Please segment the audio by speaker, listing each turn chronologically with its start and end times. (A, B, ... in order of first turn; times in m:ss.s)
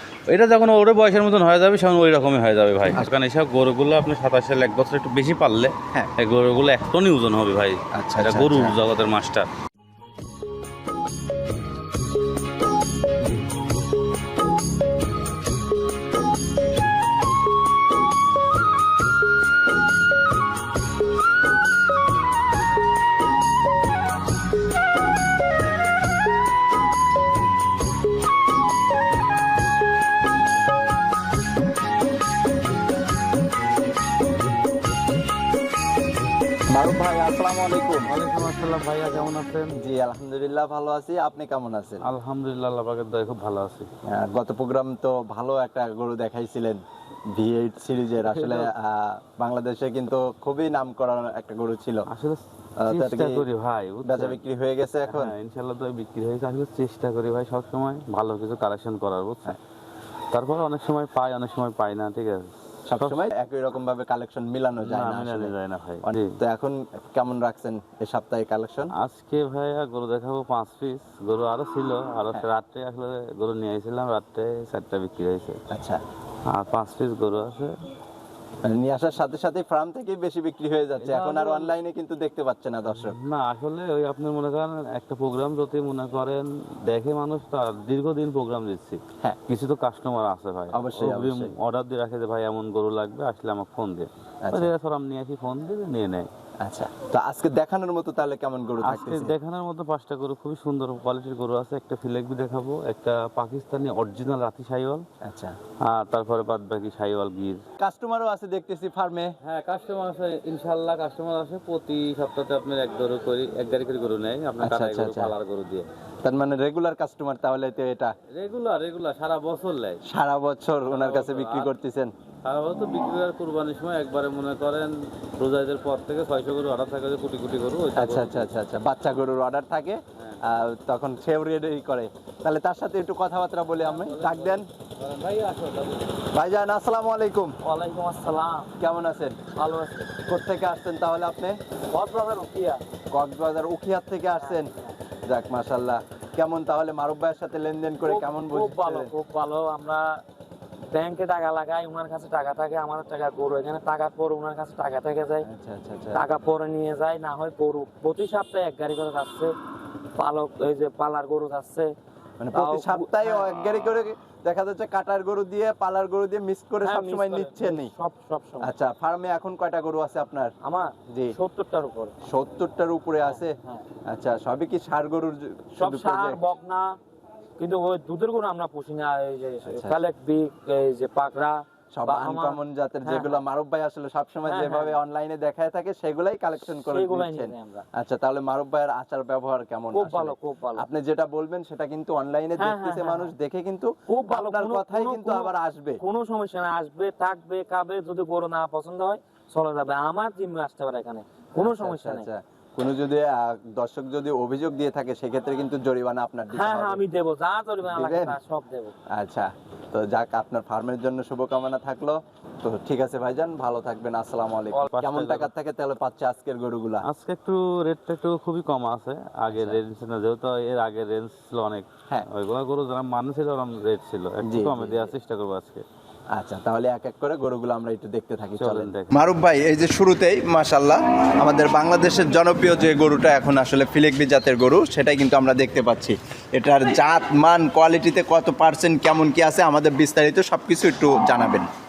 0:00.3-0:09.5 A
0:08.0-0:08.8 B
0:36.7-0:38.1 B
0:38.0-0:39.8 A
0:39.8-0:42.0 B
0:42.0-0:43.9 A
0:44.1-0:46.8 B
0:47.3-0:52.1 B
0:48.2-0:48.7 A
0:52.1-0:54.4 A
0:52.8-0:53.5 B
0:54.0-0:55.4 B
0:55.1-0:59.6 A
1:00.3-1:03.2 A
1:02.9-1:08.9 B
1:04.8-1:06.4 A
1:08.9-1:15.6 A
1:15.7-1:16.0 B
1:16.5-1:17.8 A
1:18.6-1:23.2 B
1:21.0-1:21.7 A
1:22.9-1:36.3 A
1:30.7-1:31.5 B
1:34.4-1:34.7 B
1:36.6-1:39.4 B
1:38.8-1:45.0 A
1:45.2-1:45.6 B
1:45.8-1:47.6 A
1:47.8-1:49.4 B
1:49.4-1:55.9 A
1:54.6-1:55.3 B
1:56.2-1:58.1 B
1:58.3-2:00.0 A
2:00.1-2:02.1 B
2:00.9-2:01.7 A
2:02.4-2:08.5 A
2:08.0-2:14.7 B
2:13.8-2:16.2 A
2:16.3-2:17.5 B
2:17.6-2:18.7 C
2:18.8-2:19.4 B
2:19.6-2:20.2 C
2:20.2-2:21.6 B
2:21.9-2:22.8 C
2:23.1-2:24.7 B
2:25.3-2:29.1 B
2:28.0-2:30.2 C
2:30.9-2:35.5 C
2:35.4-2:36.2 B
2:36.1-2:39.5 C
2:40.2-2:41.9 C
2:42.4-2:47.9 B
2:42.5-2:43.6 C
2:46.8-2:48.7 C
2:48.6-2:50.5 B
2:50.6-2:52.1 C
2:51.1-2:51.4 B
2:52.2-2:53.6 B
2:53.3-2:53.8 C
2:54.1-2:56.4 B
2:55.8-2:56.9 C
2:57.6-3:03.4 C
2:59.6-3:00.0 B
3:02.0-3:16.0 B
3:04.5-3:05.0 C
3:06.6-3:07.8 C
3:09.9-3:10.9 C
3:12.6-3:13.3 C
3:14.1-3:22.3 C
3:21.6-3:27.0 B
3:26.5-3:28.9 C
3:27.8-3:28.4 B
3:29.1-3:37.0 B
3:34.7-3:35.5 A
3:37.0-3:45.8 A
3:39.5-3:39.8 B
3:44.4-3:45.1 B
3:46.3-4:01.7 B
3:48.6-3:49.1 A